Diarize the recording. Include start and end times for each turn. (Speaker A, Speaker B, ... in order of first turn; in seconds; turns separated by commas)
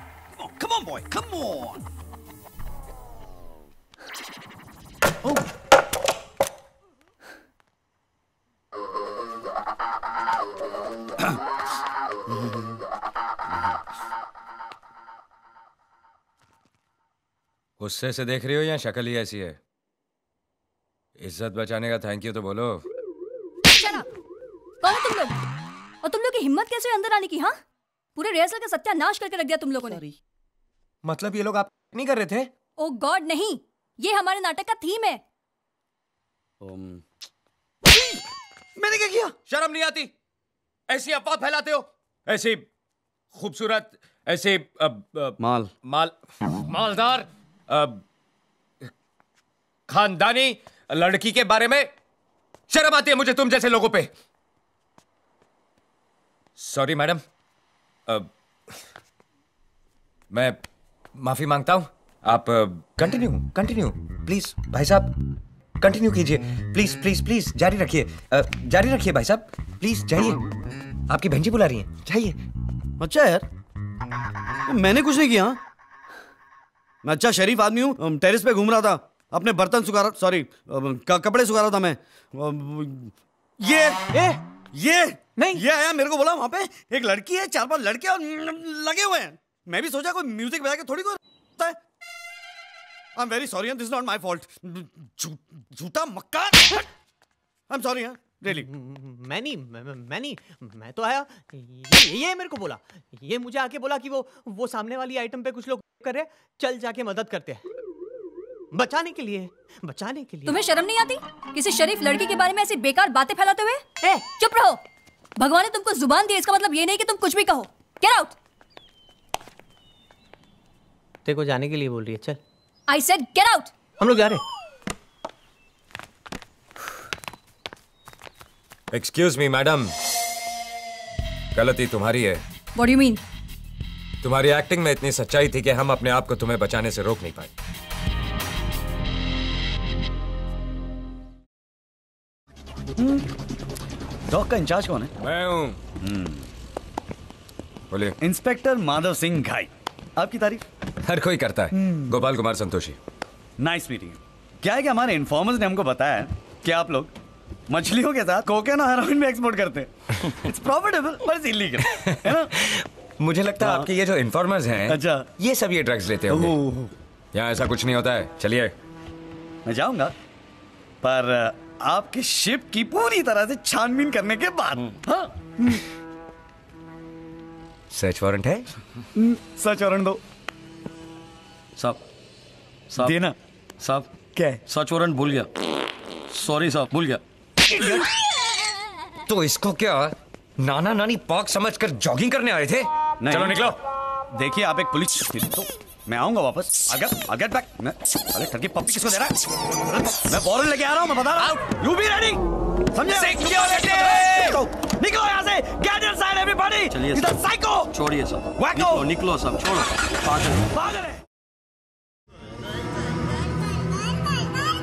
Speaker A: 0.4-1.8, Speaker B: 17.8-19.6, Speaker B: 21.2-22.8, Speaker C: 23.7-24.1, Speaker C: 24.8-25.4, Speaker C: 26.0-27.6, Speaker C: 28.1-30.0, Speaker B: 31.0-32.5, Speaker C: 32.8-35.2, Speaker A: 36.7-37.0, Speaker D: 38.8-39.3, Speaker B: 39.5-40.1, Speaker B: 40.9-42.6, Speaker B: 43.3-48.0, Speaker B: 49.9-51.9, Speaker B: 52.7-54.1, Speaker B: 56.6-57.2, Speaker B: 60.3-60.6, Speaker B: 61.1-65.1, Speaker B: 65.8-70.4, Speaker B: 71.1-72.4, Speaker D: 73.0-73.5, Speaker D: 74.7-75.6, Speaker D: 77.0-84.0, Speaker E: 84.1-84.4, Speaker D: 84.8-91.8, Speaker D: 93.2-96.8, Speaker D: 97.7-98.6, Speaker E: 98.5-107.6, Speaker E: 108.7-110.6, Speaker C: 110.5-114.8, Speaker C: 115.4-118.3, Speaker E: 121.2-122.4, Speaker C: 122.9-123.7, Speaker E: 124.0-124.4, Speaker B: 128.9-129.9, Speaker B: 131.6-132.4, Speaker C: 132.8-133.2, Speaker B: 134.2-137.5, Speaker A: 143.0-143.2, Speaker A: 144.3-145.1, Speaker B: 145.2-145.8, Speaker A: 146.0-146.5, Speaker A: 148.2-150.6, Speaker B: 151.0-153.0, Speaker A: 151.7-152.1, Speaker A: 153.6-157.1, Speaker A: 157.7-159.9, Speaker A: 160.5-162.5, Speaker B: 162.6-166.6, Speaker A: 163.6-163.9, Speaker A: 164.9-165.2, Speaker A: 166.3-166.9, Speaker B: 167.3-168.7, Speaker A: 169.7-170.1, Speaker A: 171.0-175.8, Speaker B: 177.9-178.7, Speaker A: 179.1-180.2, Speaker F: 182.9-183.2, Speaker A: 183.0-183.3, Speaker F: 183.8-184.1, Speaker F: 184.6-185.5, Speaker F: 186.3-187.2, Speaker B: 189.3-193.8, Speaker A: 193.2-193.8, Speaker A: 194.3-199.3, Speaker A: 200.2-202.4, Speaker A: 202.9-207.9, Speaker B: 203.1-204.6, Speaker D: 203.4-204.5, Speaker F: 206.9-207.4, Speaker F: 207.9-210.7, Speaker A: 208.6-209.1, Speaker A: 210.7-211.2